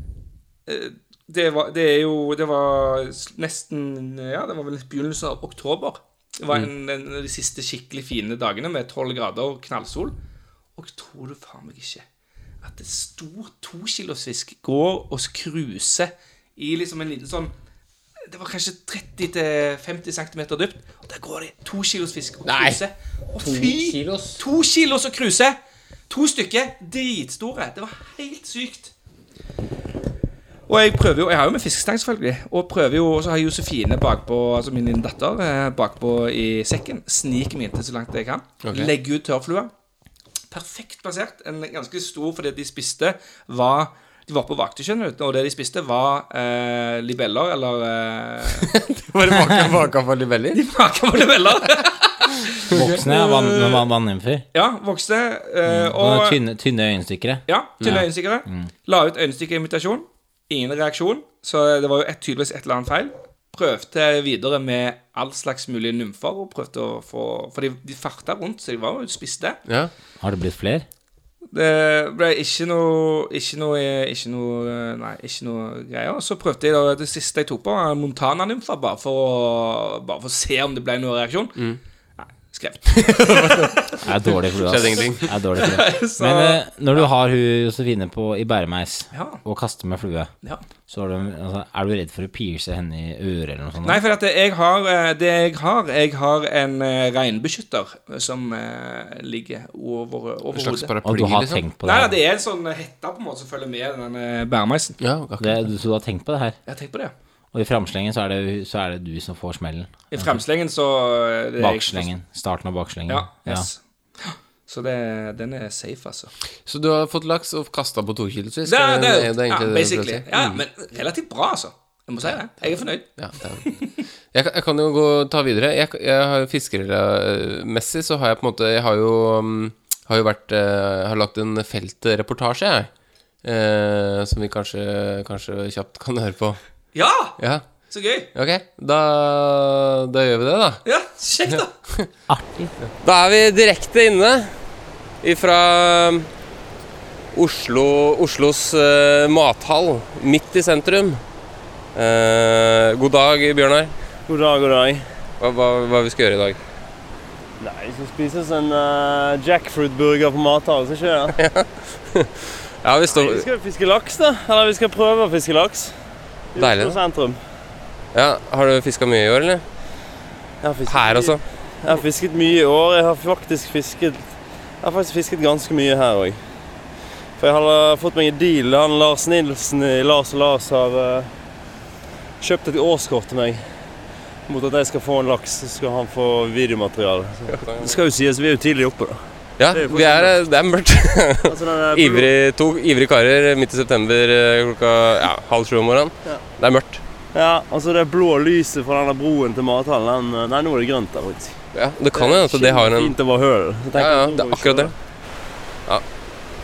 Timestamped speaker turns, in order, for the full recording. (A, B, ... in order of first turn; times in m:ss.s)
0:00.7-0:10.2 A
0:10.8-0:12.0 A
0:12.6-0:17.5 A
0:18.3-0:25.6 A
0:22.4-0:22.8 B
0:23.4-0:24.4 B
0:26.1-0:28.9 A
0:30.7-0:39.7 A
0:38.6-0:38.9 B
0:40.5-0:48.7 A
0:48.6-0:50.6 B
0:50.5-0:53.9 A
0:52.7-0:54.4 C
0:54.5-0:56.4 A
0:55.7-0:58.7 C
0:57.5-1:09.6 A
1:09.7-1:09.9 B
1:10.2-1:10.9 C
1:11.5-1:21.6 A
1:22.2-1:24.1 A
1:22.9-1:23.9 B
1:24.0-1:30.3 C
1:24.6-1:25.3 B
1:25.5-1:27.1 A
1:29.1-1:29.4 A
1:30.9-1:34.0 C
1:33.8-1:40.9 A
1:40.5-1:41.6 B
1:41.0-1:42.2 C
1:41.8-1:45.0 A
1:45.0-1:45.6 B
1:45.4-1:46.6 C
1:46.7-1:47.1 A
1:47.5-1:50.4 C
1:50.1-1:52.1 A
1:51.6-1:53.7 C
1:53.1-1:56.3 A
1:56.7-2:00.6 B
1:58.7-2:03.9 A
2:03.2-2:03.7 B
2:04.3-2:12.9 B
2:13.4-2:16.6 B
2:16.9-2:18.3 A
2:17.4-2:17.7 B
2:18.3-2:20.8 B
2:20.8-2:21.7 A
2:22.3-2:22.7 C
2:23.0-2:24.5 B
2:25.2-2:26.3 B
2:27.3-2:31.2 B
2:32.0-2:33.9 B
2:34.3-2:35.0 D
2:35.4-2:36.6 B
2:37.6-2:41.4 D
2:41.4-2:43.5 B
2:43.1-2:45.9 D
2:46.6-2:47.4 D
2:46.6-2:47.0 B
2:48.1-2:49.6 B
2:50.6-2:56.4 D
2:50.9-2:51.4 B
2:57.4-3:01.3 D
3:02.4-3:03.6 D
3:04.5-3:10.4 D
3:07.5-3:08.0 B
3:09.6-3:17.0 B
3:11.5-3:12.3 D
3:17.3-3:21.6 D
3:21.7-3:23.1 B
3:22.1-3:24.9 D
3:24.0-3:24.9 B